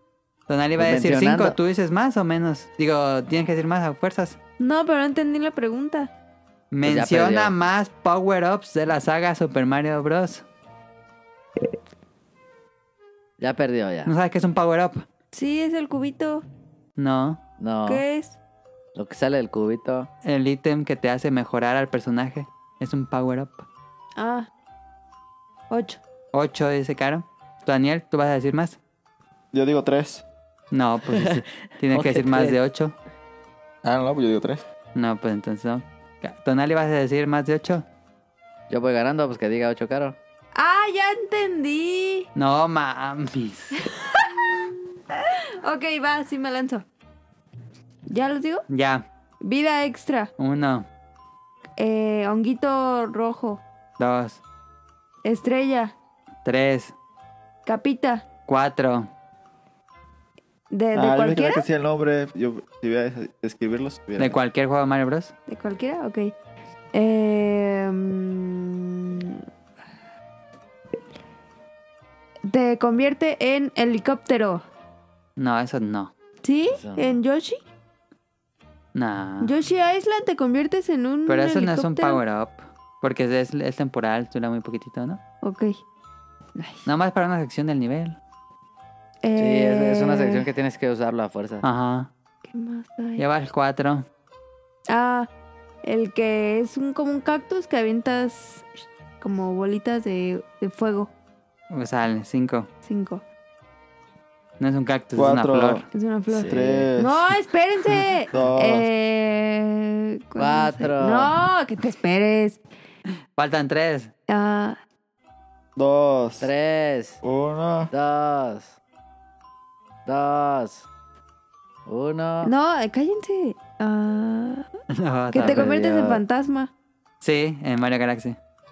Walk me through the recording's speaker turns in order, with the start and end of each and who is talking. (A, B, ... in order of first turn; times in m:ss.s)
0:00.5-0:04.4 A
0:00.8-0:01.6 B
0:04.6-0:06.1 C
0:06.7-0:10.4 A
0:06.8-0:07.5 B
0:13.4-0:14.1 B
0:14.0-0:15.0 A
0:15.3-0:16.4 C
0:17.0-0:17.4 A
0:17.6-0:18.0 B
0:17.8-0:18.4 C
0:18.9-0:20.1 B
0:20.2-0:23.7 A
0:24.2-0:24.5 C
0:25.7-0:26.0 C
0:26.3-0:28.8 A
0:29.5-0:30.2 D
0:30.7-0:32.9 A
0:31.1-0:31.4 B
0:31.9-0:32.6 B
0:33.8-0:34.6 D
0:34.9-0:37.8 A
0:38.7-0:40.2 B
0:40.5-0:42.3 C
0:42.4-0:43.8 A
0:43.8-0:46.8 C
0:48.1-0:48.6 C
0:48.7-0:49.0 A
0:49.4-0:50.3 C
0:50.4-0:50.8 A
0:51.8-0:53.6 C
0:54.0-0:54.4 A
0:55.2-0:55.9 C
0:56.4-0:56.9 A
0:57.6-0:58.2 C
0:58.5-0:59.1 A
1:00.7-1:01.6 C
1:00.9-1:04.4 D
1:04.2-1:05.3 A
1:05.5-1:06.3 C
1:06.9-1:09.4 C
1:12.5-1:14.6 C
1:15.4-1:16.1 A
1:16.4-1:17.6 C
1:16.8-1:17.2 B
1:18.9-1:19.5 A
1:19.4-1:22.2 C
1:21.3-1:25.2 A
1:25.4-1:25.8 C
1:26.6-1:26.8 C
1:26.8-1:28.2 A
1:29.2-1:30.5 C
1:29.4-1:31.6 B
1:31.6-1:32.1 A
1:32.4-1:33.2 C
1:33.2-1:34.0 A
1:34.9-1:35.3 C
1:35.8-1:38.7 C
1:39.2-1:41.1 C
1:41.7-1:42.7 A
1:42.8-1:43.2 C
1:44.6-1:45.8 A
1:45.1-1:45.8 D
1:45.9-1:52.6 C
1:46.3-1:46.9 B
1:46.3-1:47.3 D
1:48.3-1:48.9 D
1:50.4-1:51.3 B
1:53.4-1:54.1 A
1:54.3-1:54.8 C
1:55.8-1:56.5 D
1:56.4-1:57.2 B
1:57.2-1:57.9 D
1:57.9-1:58.8 B
2:00.0-2:00.8 B
2:01.8-2:02.5 B
2:02.4-2:04.7 C
2:04.9-2:05.6 A
2:05.3-2:06.7 C
2:05.3-2:06.2 B
2:07.2-2:08.4 A